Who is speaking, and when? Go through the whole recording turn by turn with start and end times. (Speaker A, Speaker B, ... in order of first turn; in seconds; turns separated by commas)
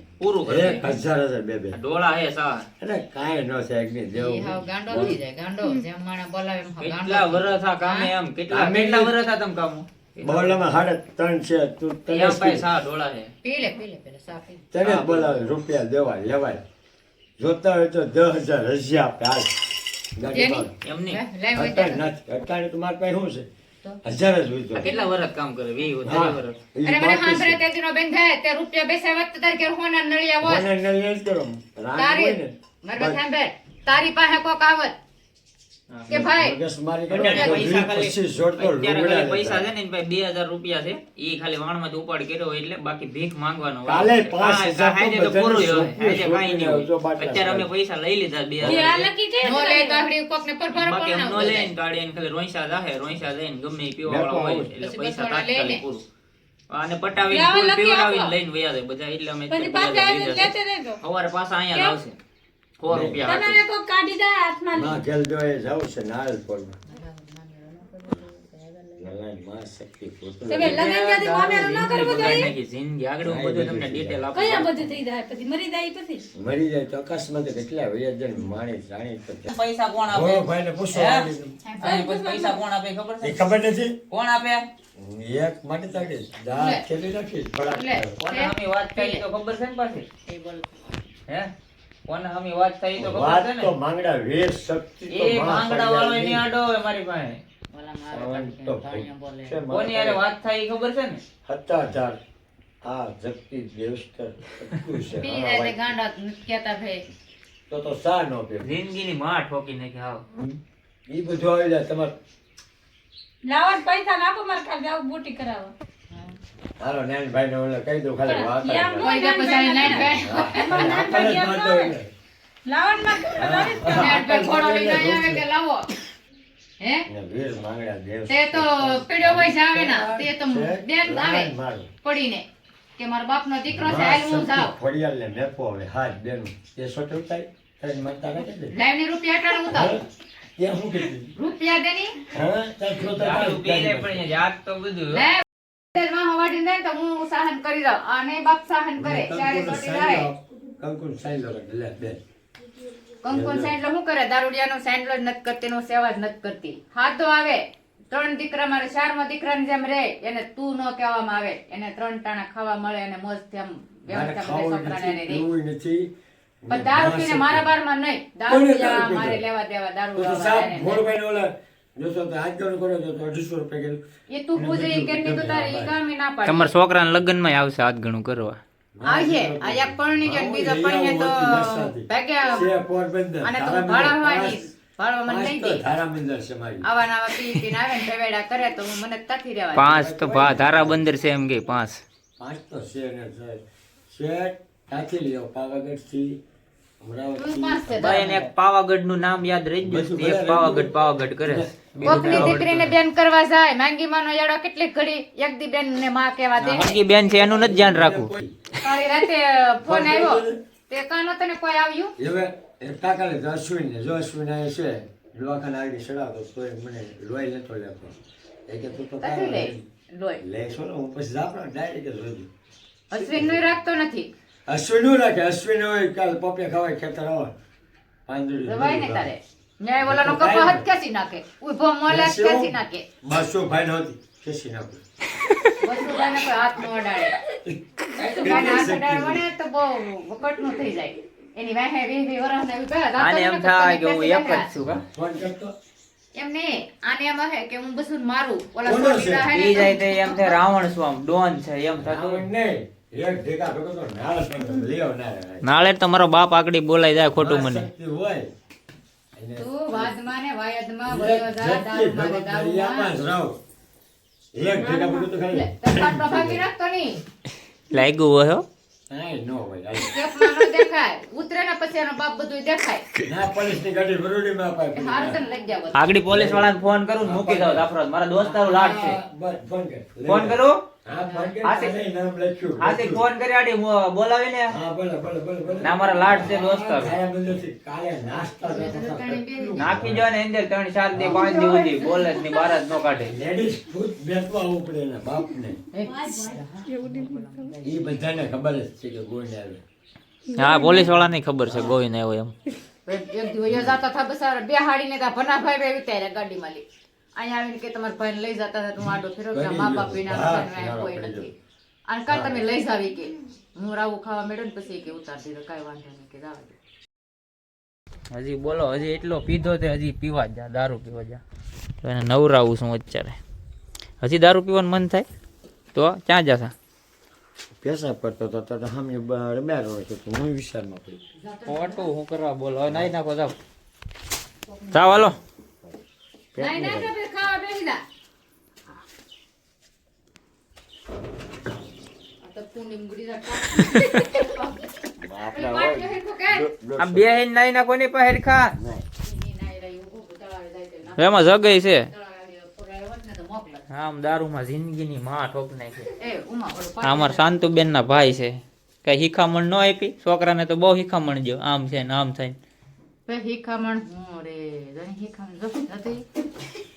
Speaker A: 0.2-0.9, Speaker B: 0.4-1.8, Speaker A: 1.7-2.7, Speaker B: 2.8-5.2, Speaker C: 4.1-8.1, Speaker A: 6.8-10.6, Speaker B: 8.5-9.1, Speaker B: 10.2-12.7, Speaker A: 12.1-13.3, Speaker C: 13.4-14.7, Speaker B: 14.7-16.6, Speaker A: 14.8-15.3, Speaker B: 17.4-19.5, Speaker B: 20.1-20.7, Speaker C: 20.3-22.0, Speaker A: 20.8-21.2, Speaker B: 21.5-23.5, Speaker B: 24.0-24.9, Speaker A: 24.7-26.6, Speaker C: 24.8-25.1, Speaker B: 26.0-27.6, Speaker C: 26.8-30.6, Speaker B: 30.4-33.2, Speaker C: 31.9-34.9, Speaker C: 36.1-36.6, Speaker B: 36.1-39.7, Speaker A: 37.1-49.0, Speaker C: 37.2-37.7, Speaker B: 43.9-47.7, Speaker B: 48.6-48.9, Speaker D: 48.6-50.1, Speaker C: 48.9-51.7, Speaker A: 50.7-56.0, Speaker B: 54.0-54.7, Speaker C: 54.8-55.8, Speaker A: 56.7-62.2, Speaker D: 57.3-58.2, Speaker C: 58.0-58.3, Speaker D: 59.5-61.0, Speaker D: 61.7-62.0, Speaker A: 62.8-63.6, Speaker B: 62.9-63.4, Speaker D: 63.2-65.0, Speaker B: 64.7-66.8, Speaker C: 66.9-69.1, Speaker B: 69.0-70.9, Speaker D: 70.5-72.5, Speaker A: 70.6-74.9, Speaker B: 73.2-74.2, Speaker D: 74.3-76.2, Speaker B: 76.3-79.5, Speaker A: 79.5-81.3, Speaker B: 80.1-81.6, Speaker C: 81.6-82.0, Speaker A: 81.8-83.4, Speaker D: 81.8-82.6, Speaker B: 83.2-84.0, Speaker A: 84.1-84.7, Speaker B: 84.9-88.2, Speaker C: 86.5-86.8, Speaker C: 87.7-89.2, Speaker A: 88.2-90.1, Speaker C: 90.3-90.7, Speaker A: 92.1-93.7, Speaker B: 93.0-96.5, Speaker A: 95.1-97.4, Speaker C: 97.7-99.6, Speaker B: 98.1-100.2, Speaker A: 99.7-101.2, Speaker B: 101.4-102.2, Speaker B: 102.8-105.9, Speaker C: 105.2-107.0, Speaker B: 107.7-108.7, Speaker A: 108.6-110.2, Speaker B: 111.1-112.1, Speaker D: 113.5-115.7, Speaker C: 116.1-116.4, Speaker B: 116.8-119.2, Speaker D: 118.2-121.9, Speaker C: 119.0-121.1, Speaker B: 119.7-122.1, Speaker D: 122.7-124.2, Speaker B: 123.3-125.4, Speaker C: 123.8-125.9, Speaker C: 126.8-127.0, Speaker B: 127.1-131.9, Speaker C: 128.3-131.5, Speaker C: 132.0-132.4, Speaker C: 133.0-134.7, Speaker B: 133.7-138.7, Speaker C: 138.7-139.9, Speaker B: 139.7-140.0, Speaker B: 140.6-141.3, Speaker C: 141.3-142.2, Speaker B: 142.3-144.2, Speaker A: 143.0-145.2, Speaker C: 145.1-150.3, Speaker B: 149.0-152.2, Speaker C: 153.2-165.4, Speaker B: 153.3-153.7, Speaker B: 164.1-166.1, Speaker B: 166.6-167.7, Speaker C: 166.7-171.0, Speaker B: 168.5-169.4, Speaker B: 170.1-174.0, Speaker C: 174.3-176.7, Speaker B: 174.5-175.9, Speaker A: 176.4-178.6, Speaker B: 178.9-184.6, Speaker C: 179.1-182.7, Speaker C: 183.4-185.8, Speaker B: 185.2-186.8, Speaker C: 186.8-190.0, Speaker A: 189.7-192.0, Speaker B: 189.8-191.0, Speaker B: 192.4-196.4, Speaker B: 197.0-198.5, Speaker C: 197.4-198.4, Speaker A: 198.0-202.9, Speaker B: 199.8-202.9, Speaker C: 202.0-207.0, Speaker A: 206.6-208.3, Speaker B: 207.3-208.6, Speaker C: 208.8-212.1, Speaker B: 209.8-210.6, Speaker B: 212.2-219.8, Speaker C: 219.2-220.4, Speaker B: 220.4-222.5, Speaker C: 223.1-224.3, Speaker B: 223.1-223.6, Speaker B: 224.7-227.5, Speaker B: 228.3-229.3, Speaker C: 228.6-233.1, Speaker B: 230.0-230.8, Speaker B: 232.1-235.0, Speaker C: 235.8-237.4, Speaker B: 237.6-239.4, Speaker C: 238.2-244.7, Speaker A: 243.2-245.0, Speaker B: 245.1-245.7, Speaker C: 246.3-250.6, Speaker B: 248.8-249.5, Speaker A: 249.5-252.4, Speaker B: 252.0-255.7, Speaker A: 255.6-257.9, Speaker B: 257.4-258.5, Speaker B: 259.4-260.1, Speaker C: 259.6-263.1, Speaker B: 261.1-263.6, Speaker B: 264.5-266.7, Speaker C: 264.6-267.2, Speaker A: 267.9-268.6, Speaker B: 269.1-270.6, Speaker C: 270.0-273.1, Speaker B: 273.2-275.4, Speaker C: 274.9-276.0, Speaker A: 275.9-279.2, Speaker B: 276.3-283.2, Speaker A: 280.2-280.8, Speaker C: 281.2-281.5, Speaker A: 281.6-281.9, Speaker A: 282.8-284.8, Speaker B: 284.7-290.3, Speaker A: 285.8-287.1, Speaker C: 288.6-289.9, Speaker A: 289.8-293.3, Speaker B: 291.1-291.5, Speaker C: 291.2-292.7, Speaker B: 293.2-295.8, Speaker C: 295.9-298.1, Speaker D: 296.2-297.5, Speaker B: 297.8-299.8, Speaker D: 300.5-301.1, Speaker A: 300.6-302.5, Speaker B: 301.7-302.0, Speaker C: 303.1-306.8, Speaker B: 303.7-304.0, Speaker C: 307.4-311.5, Speaker B: 309.5-311.5, Speaker C: 312.1-316.8, Speaker B: 312.3-312.6, Speaker A: 318.3-321.4, Speaker A: 322.0-323.4, Speaker A: 324.2-325.2, Speaker A: 325.9-326.7, Speaker B: 327.8-331.2, Speaker C: 331.4-332.1, Speaker A: 331.7-333.5, Speaker B: 332.9-333.1, Speaker C: 334.7-334.9, Speaker A: 334.9-335.4, Speaker B: 336.5-337.1, Speaker C: 336.6-338.0, Speaker C: 342.4-344.9, Speaker B: 345.2-347.3, Speaker C: 345.5-346.7, Speaker A: 347.0-348.8, Speaker B: 348.8-349.1, Speaker C: 349.2-351.5, Speaker A: 351.2-352.1, Speaker C: 352.1-353.8, Speaker A: 353.9-356.1, Speaker C: 356.2-357.5, Speaker A: 357.0-362.6, Speaker C: 363.3-366.2